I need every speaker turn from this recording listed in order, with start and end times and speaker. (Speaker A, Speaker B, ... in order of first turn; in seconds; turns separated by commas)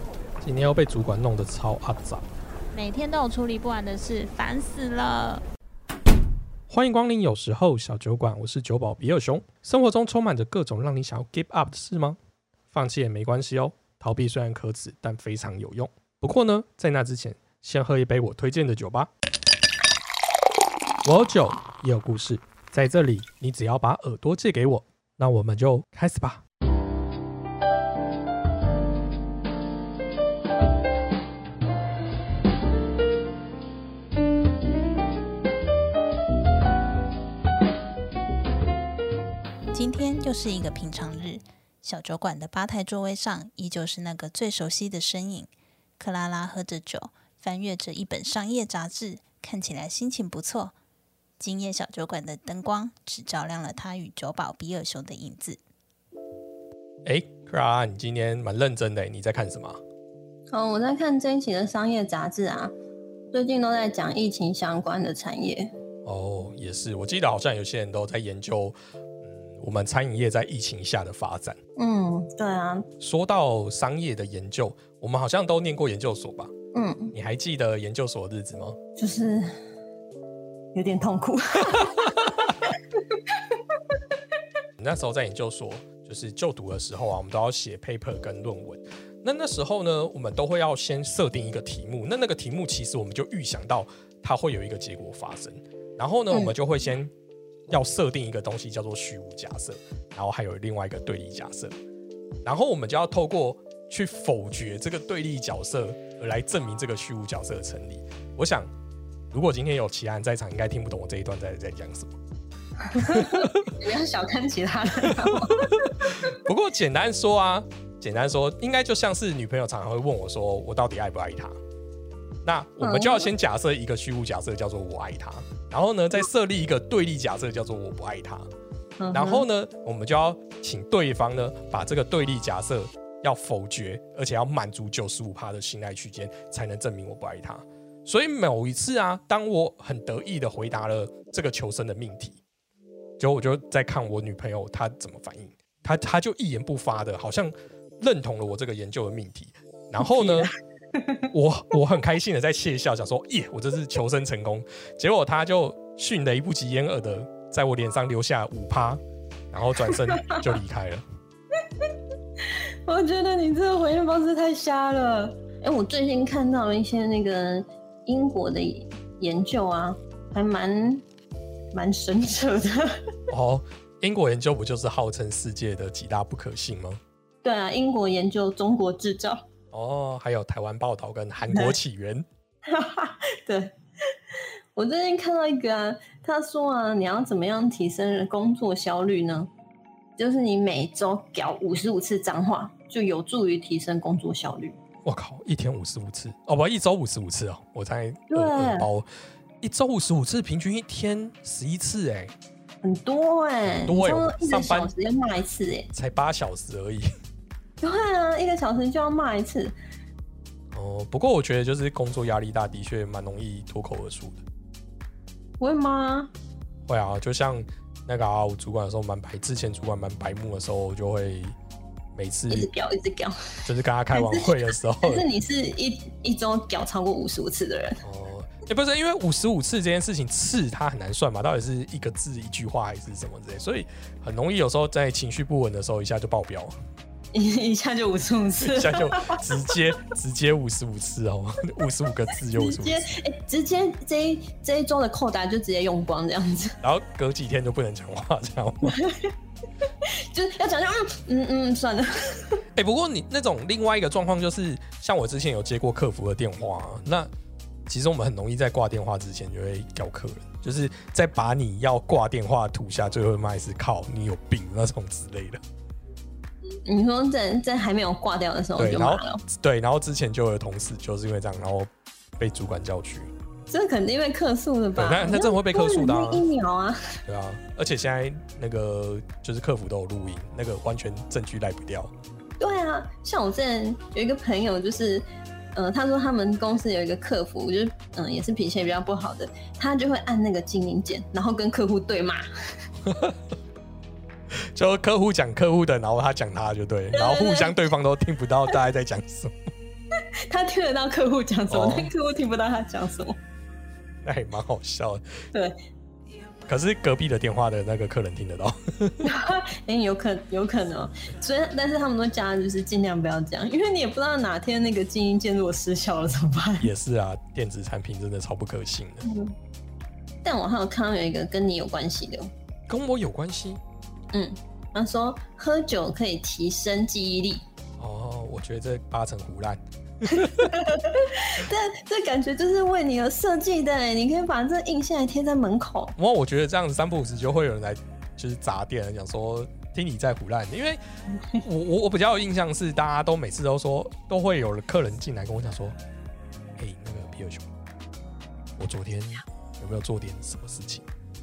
Speaker A: 0.4-2.2, Speaker B: 2.7-5.4, Speaker C: 3.7-4.4, Speaker A: 6.7-12.2, Speaker A: 12.7-19.1, Speaker A: 21.0-26.4, Speaker C: 39.7-50.7, Speaker C: 51.4-55.6, Speaker A: 57.0-59.8, Speaker D: 60.5-62.7, Speaker D: 63.3-65.7, Speaker A: 66.0-68.7, Speaker A: 69.3-71.6, Speaker D: 71.8-72.9, Speaker A: 73.0-76.5, Speaker D: 76.7-77.1, Speaker A: 77.1-78.8, Speaker D: 79.0-79.5, Speaker D: 80.7-83.4, Speaker A: 84.8-97.1, Speaker A: 97.7-101.7, Speaker A: 102.4-108.7, Speaker A: 109.3-112.1, Speaker D: 112.8-116.3, Speaker A: 112.9-113.8, Speaker A: 115.2-121.5, Speaker A: 122.4-128.5, Speaker D: 122.8-123.3, Speaker D: 129.0-129.4, Speaker A: 129.1-142.4, Speaker A: 143.2-150.5, Speaker D: 150.0-151.2, Speaker A: 151.3-159.0, Speaker A: 159.5-161.0, Speaker D: 159.9-160.4, Speaker D: 162.4-171.0, Speaker D: 171.7-173.1, Speaker A: 173.3-177.0, Speaker D: 177.4-179.4, Speaker A: 179.7-182.2, Speaker D: 182.7-183.7, Speaker D: 184.3-189.5, Speaker D: 190.2-194.8, Speaker A: 195.1-199.1, Speaker D: 198.3-198.9, Speaker A: 199.6-202.3, Speaker D: 202.8-205.9, Speaker A: 203.6-204.9, Speaker A: 205.9-207.1, Speaker D: 207.8-209.7, Speaker A: 210.7-214.4, Speaker D: 215.6-216.3, Speaker A: 216.9-221.5, Speaker A: 222.1-222.7, Speaker D: 222.5-228.0, Speaker A: 223.6-225.2, Speaker A: 228.0-236.7, Speaker D: 237.3-239.6, Speaker A: 238.6-243.2, Speaker D: 242.5-246.8, Speaker A: 246.8-249.0, Speaker D: 248.8-249.3, Speaker D: 250.0-252.6, Speaker A: 252.8-257.3, Speaker A: 257.9-265.6, Speaker D: 266.9-269.4, Speaker A: 268.8-273.3, Speaker D: 273.7-277.2, Speaker A: 274.9-276.4, Speaker A: 277.3-282.1, Speaker D: 282.6-292.4, Speaker A: 293.0-293.4, Speaker A: 294.7-299.5, Speaker D: 297.1-297.9, Speaker D: 300.2-303.4, Speaker A: 301.7-302.1, Speaker A: 304.2-305.4, Speaker A: 306.7-309.2, Speaker D: 309.2-316.9, Speaker A: 316.8-319.2, Speaker D: 319.2-319.5, Speaker D: 320.4-322.5, Speaker A: 322.9-323.8, Speaker D: 324.3-327.6, Speaker A: 328.0-330.8, Speaker D: 330.3-336.1, Speaker A: 336.2-341.0, Speaker A: 341.6-345.9, Speaker A: 346.8-347.6, Speaker A: 348.8-351.0